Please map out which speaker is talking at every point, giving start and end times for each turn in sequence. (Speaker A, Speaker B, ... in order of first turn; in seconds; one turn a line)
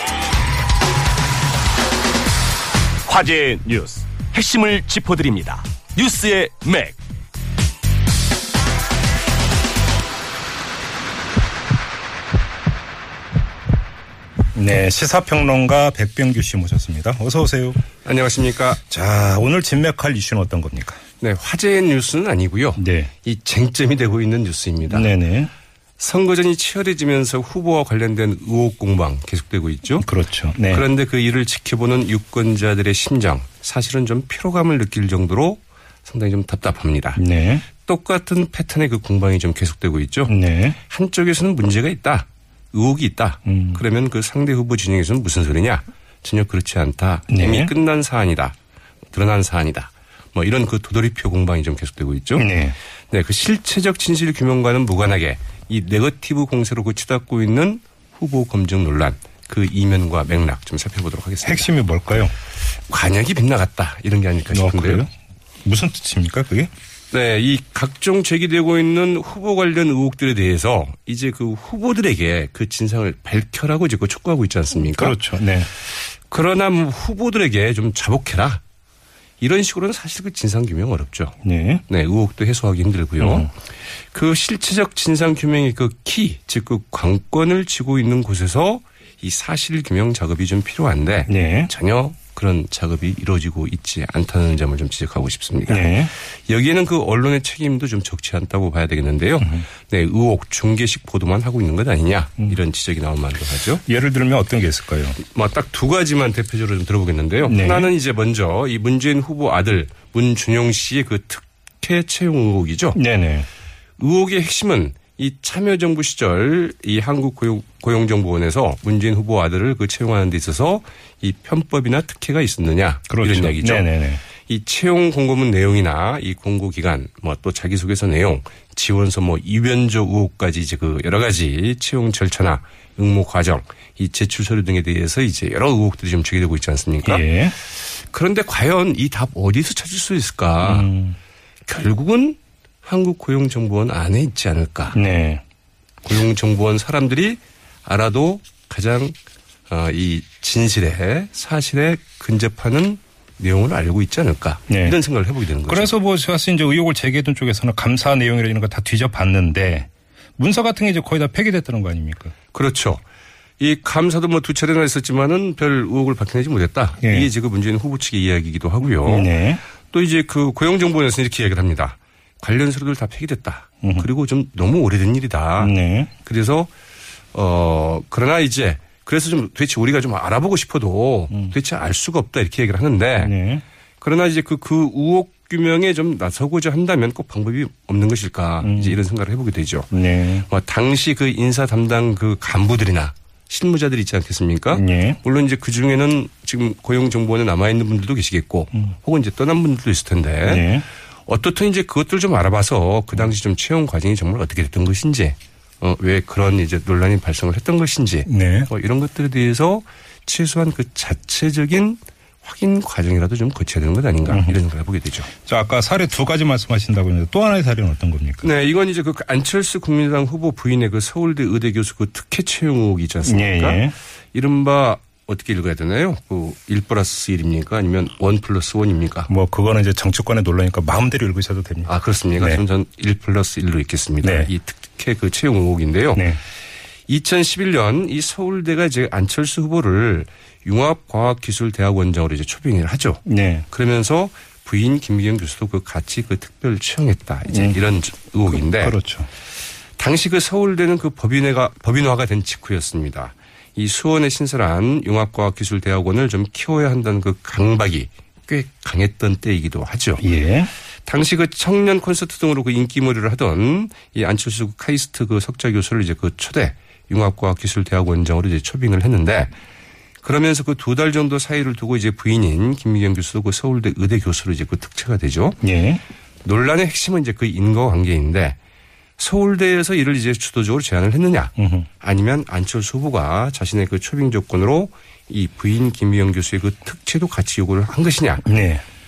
Speaker A: 3.1-7.0
Speaker B: 14.5-17.8
Speaker C: 18.0-18.8
Speaker B: 18.8-21.0
Speaker C: 21.2-25.1
Speaker B: 22.8-23.1
Speaker B: 24.9-25.5
Speaker C: 26.0-30.1
Speaker B: 30.0-30.9
Speaker C: 30.7-48.6
Speaker B: 37.2-37.6
Speaker B: 40.3-40.8
Speaker B: 43.5-43.8
Speaker B: 47.3-47.7
Speaker C: 49.1-52.5
Speaker B: 52.4-52.8
Speaker C: 53.1-61.7
Speaker B: 61.4-62.3
Speaker C: 62.9-65.1
Speaker B: 64.5-65.1
Speaker B: 65.7-66.7
Speaker C: 67.1-75.2
Speaker B: 74.9-75.7
Speaker C: 76.3-78.6
Speaker C: 79.4-81.4
Speaker B: 81.4-81.8
Speaker C: 81.9-83.6
Speaker B: 83.2-83.5
Speaker C: 84.1-103.8
Speaker B: 91.3-91.7
Speaker B: 95.7-96.1
Speaker B: 99.4-99.7
Speaker B: 103.8-105.2
Speaker C: 105.2-113.0
Speaker B: 107.5-107.9
Speaker B: 113.0-113.5
Speaker C: 114.0-140.9
Speaker B: 123.1-124.2
Speaker B: 137.0-137.5
Speaker B: 140.6-141.2
Speaker C: 141.7-145.0
Speaker B: 144.9-145.4
Speaker C: 146.0-149.2
Speaker C: 149.7-155.9
Speaker B: 154.7-155.0
Speaker B: 155.7-162.3
Speaker C: 162.5-163.0
Speaker C: 163.6-169.3
Speaker B: 167.0-167.3
Speaker B: 169.0-169.6
Speaker C: 169.9-176.7
Speaker B: 175.6-176.1
Speaker C: 177.3-183.4
Speaker B: 183.2-183.6
Speaker C: 184.0-200.7
Speaker B: 188.6-189.0
Speaker B: 189.9-190.5
Speaker B: 194.7-195.2
Speaker B: 200.4-200.9
Speaker C: 201.3-215.3
Speaker B: 208.3-208.7
Speaker B: 214.3-214.6
Speaker B: 215.4-218.5
Speaker C: 218.4-229.3
Speaker B: 223.2-223.9
Speaker B: 229.3-232.6
Speaker C: 231.9-236.3
Speaker B: 234.2-234.5
Speaker B: 236.2-236.4
Speaker C: 237.1-249.0
Speaker B: 243.3-243.7
Speaker B: 247.5-247.8
Speaker B: 248.6-249.3
Speaker C: 250.0-260.3
Speaker B: 260.2-260.7
Speaker C: 261.1-269.5
Speaker C: 270.2-275.6
Speaker B: 275.6-276.0
Speaker C: 276.4-278.6
Speaker C: 279.2-288.5
Speaker B: 281.6-281.9
Speaker B: 288.4-288.8